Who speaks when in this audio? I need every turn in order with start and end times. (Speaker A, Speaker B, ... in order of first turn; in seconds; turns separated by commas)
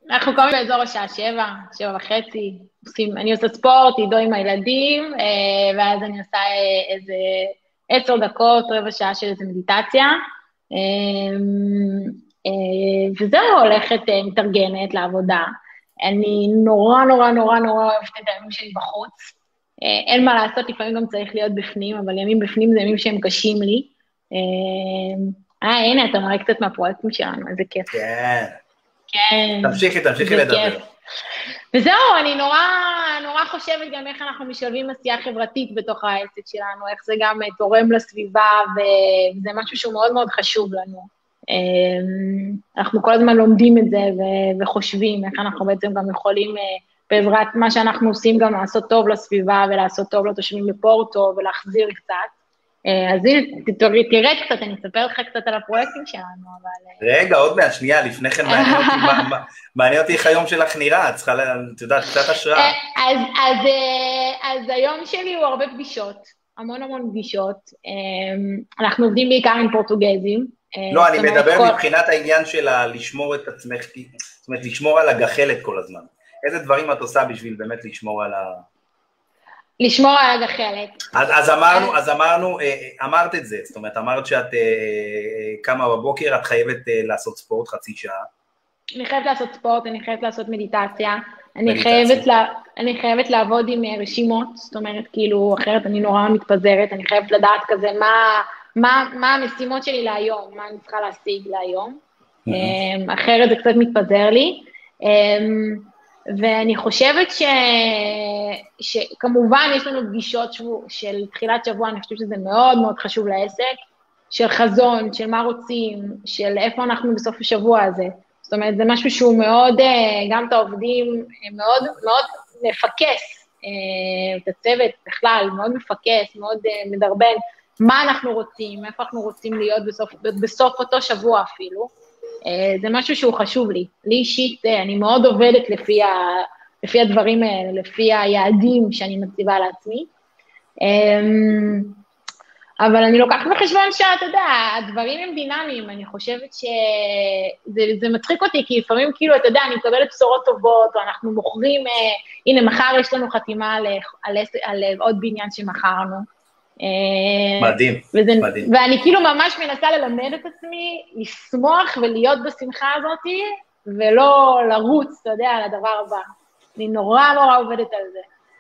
Speaker A: 0.1-27.9, Speaker B: 27.9-28.6, Speaker A: 29.1-30.8, Speaker B: 29.6-30.9, Speaker A: 31.7-52.3, Speaker A: 52.9-57.0, Speaker B: 57.0-62.8, Speaker A: 58.5-59.3, Speaker A: 62.5-71.8, Speaker B: 70.9-78.7, Speaker A: 79.8-81.0, Speaker B: 81.1-88.3, Speaker A: 89.0-102.0, Speaker B: 91.7-92.3, Speaker B: 102.5-102.8, Speaker A: 102.5-113.7, Speaker A: 114.3-131.9, Speaker A: 132.5-140.1, Speaker A: 140.8-142.0, Speaker A: 142.8-156.3, Speaker A: 156.8-166.2, Speaker B: 157.6-158.7, Speaker A: 166.8-168.3